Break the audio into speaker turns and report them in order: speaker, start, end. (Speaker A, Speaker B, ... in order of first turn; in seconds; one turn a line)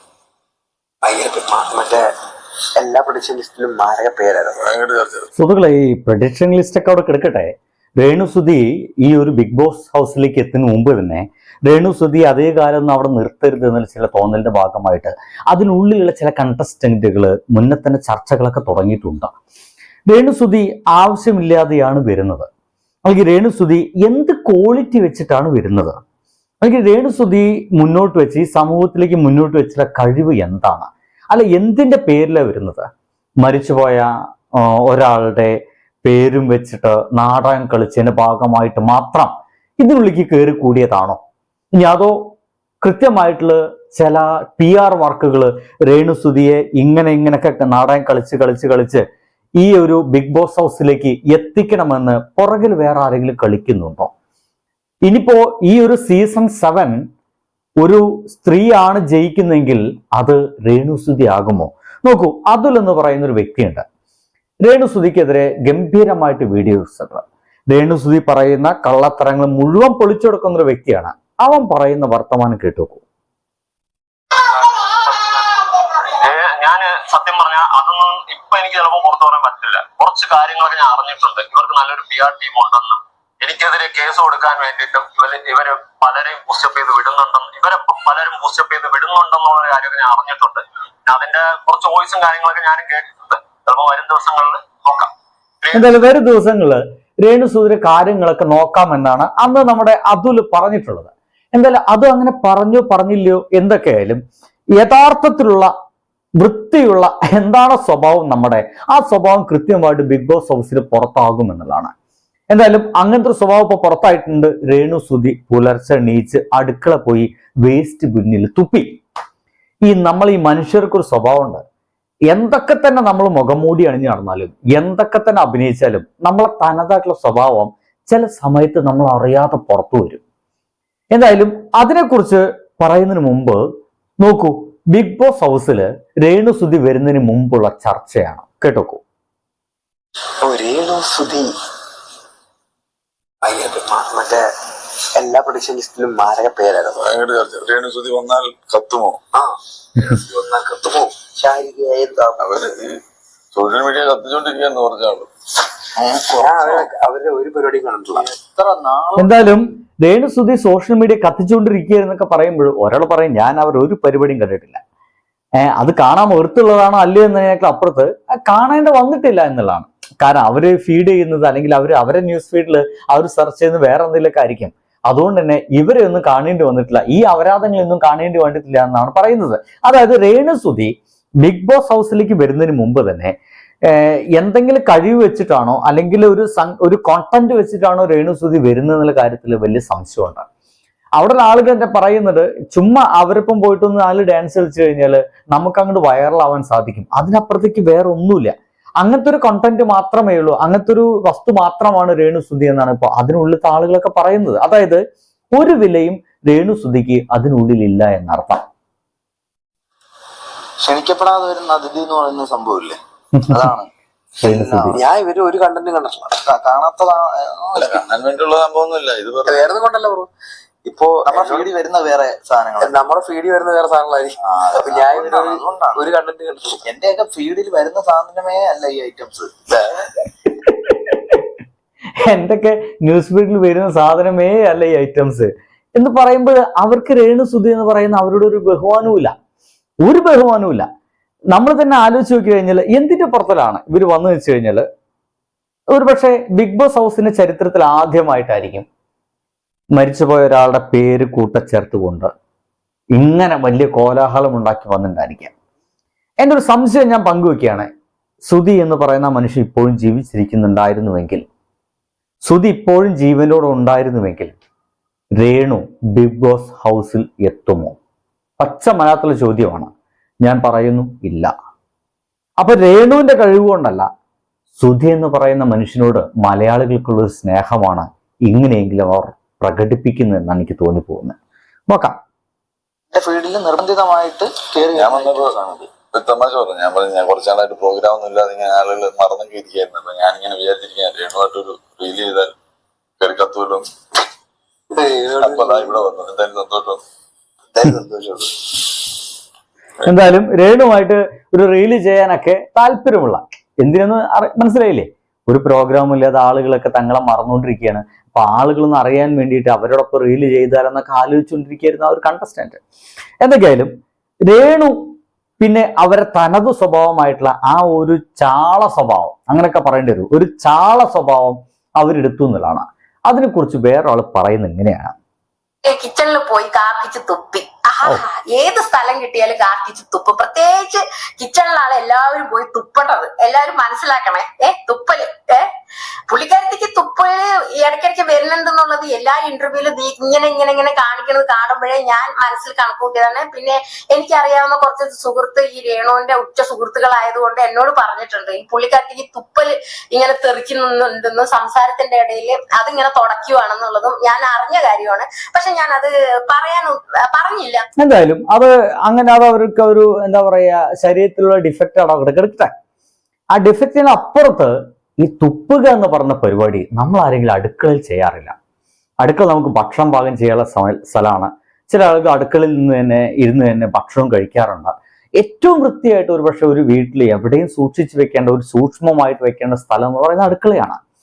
Speaker A: 1.0-2.1
Speaker A: 2.8-4.6
Speaker B: 4.6-5.3
Speaker C: 5.4-19.3
Speaker C: 20.1-22.5
Speaker C: 23.1-26.0
Speaker C: 26.6-32.9
Speaker C: 33.4-41.2
Speaker C: 41.8-42.2
Speaker C: 42.8-49.0
Speaker C: 49.6-54.1
Speaker C: 55.0-57.0
Speaker C: 57.8-63.8
Speaker C: 64.6-73.0
Speaker D: 74.4-95.9
Speaker C: 95.7-104.2
Speaker C: 104.8-105.7
Speaker C: 106.4-111.9
Speaker C: 112.5-119.0
Speaker C: 119.9-121.6
Speaker C: 122.3-130.2
Speaker C: 131.1-133.6
Speaker C: 134.2-139.0
Speaker A: 140.4-141.5
Speaker A: 143.4-144.4
Speaker A: 145.2-147.0
Speaker B: 146.9-149.2
Speaker A: 149.3-152.4
Speaker B: 152.4-153.0
Speaker B: 153.5-155.3
Speaker E: 156.0-156.9
Speaker A: 156.4-158.3
Speaker E: 158.2-159.4
Speaker C: 159.2-164.8
Speaker C: 165.6-183.3
Speaker C: 183.8-190.4
Speaker C: 191.2-205.0
Speaker C: 205.5-208.6
Speaker E: 210.8-213.0
Speaker E: 213.5-213.9
Speaker C: 214.4-215.0
Speaker E: 214.5-215.0
Speaker A: 214.9-216.4
Speaker E: 216.4-218.0
Speaker B: 217.8-219.8
Speaker A: 219.4-220.3
Speaker A: 220.8-221.7
Speaker E: 221.2-222.9
Speaker A: 222.8-226.8
Speaker E: 224.4-226.0
Speaker E: 226.8-229.5
Speaker C: 230.7-231.3
Speaker C: 232.2-239.3
Speaker C: 240.0-240.8
Speaker C: 241.5-244.8
Speaker C: 245.9-248.8
Speaker C: 249.9-252.3
Speaker C: 253.1-255.5
Speaker C: 256.4-257.9
Speaker C: 258.4-261.4
Speaker C: 262.4-264.5
Speaker C: 265.4-267.9
Speaker C: 268.6-269.9
Speaker C: 270.4-271.5
Speaker C: 272.6-274.1
Speaker C: 274.8-281.4
Speaker C: 281.9-282.1
Speaker E: 283.1-285.9
Speaker B: 284.9-292.5
Speaker B: 293.2-293.8
Speaker A: 294.9-296.0
Speaker B: 295.3-297.0
Speaker E: 297.8-298.4
Speaker A: 297.8-298.3
Speaker C: 300.1-312.8
Speaker C: 313.4-313.9
Speaker C: 314.4-314.9
Speaker C: 315.6-325.1
Speaker F: 325.8-335.7
Speaker F: 336.3-357.8
Speaker C: 358.0-362.7
Speaker C: 363.5-368.6
Speaker C: 369.2-381.0